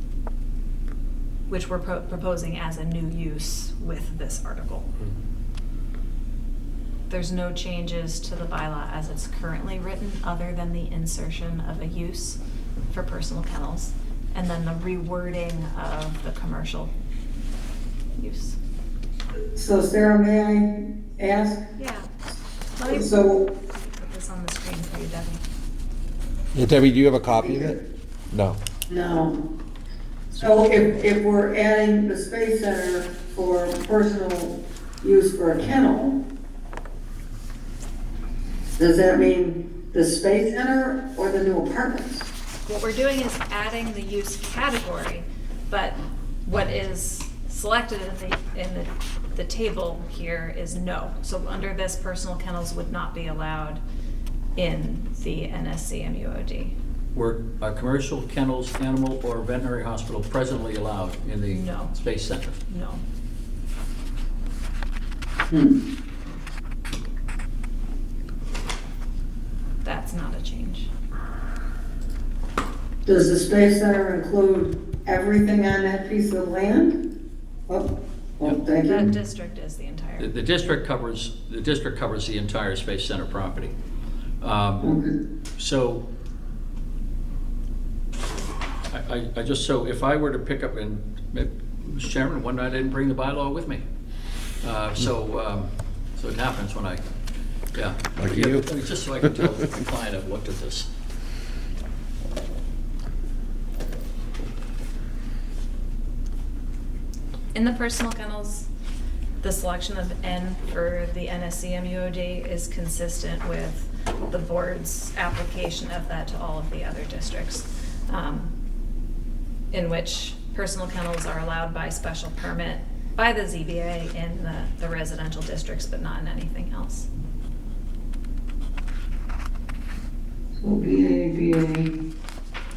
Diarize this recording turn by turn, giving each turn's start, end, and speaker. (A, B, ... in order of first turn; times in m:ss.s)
0:01.5-0:04.9 A
0:07.1-0:12.4 A
0:12.9-0:16.9 A
0:18.2-0:18.6 A
0:19.6-0:21.6 B
0:21.8-0:22.1 A
0:22.8-0:25.4 A
0:22.8-0:23.5 B
0:26.5-0:27.8 C
0:27.3-0:27.8 B
0:28.3-0:28.6 C
0:28.9-0:29.4 B
0:30.3-0:36.2 B
0:38.8-0:42.3 B
0:42.7-0:53.8 A
0:54.6-0:56.8 A
0:57.2-1:02.6 D
1:01.5-1:02.0 A
1:02.7-1:03.0 A
1:05.5-1:05.8 B
1:09.8-1:10.9 A
1:13.0-1:17.0 B
1:17.7-1:19.1 B
1:18.8-1:20.8 A
1:20.2-1:23.8 D
1:24.4-1:24.9 D
1:24.8-1:25.1 B
1:25.6-1:26.1 D
1:28.9-1:33.8 D
1:34.6-1:37.0 D
1:37.7-1:40.9 D
1:38.2-1:38.7 C
1:47.5-1:48.7 A
1:49.4-1:58.5 A
1:59.7-2:07.1 A
2:10.6-2:11.9 B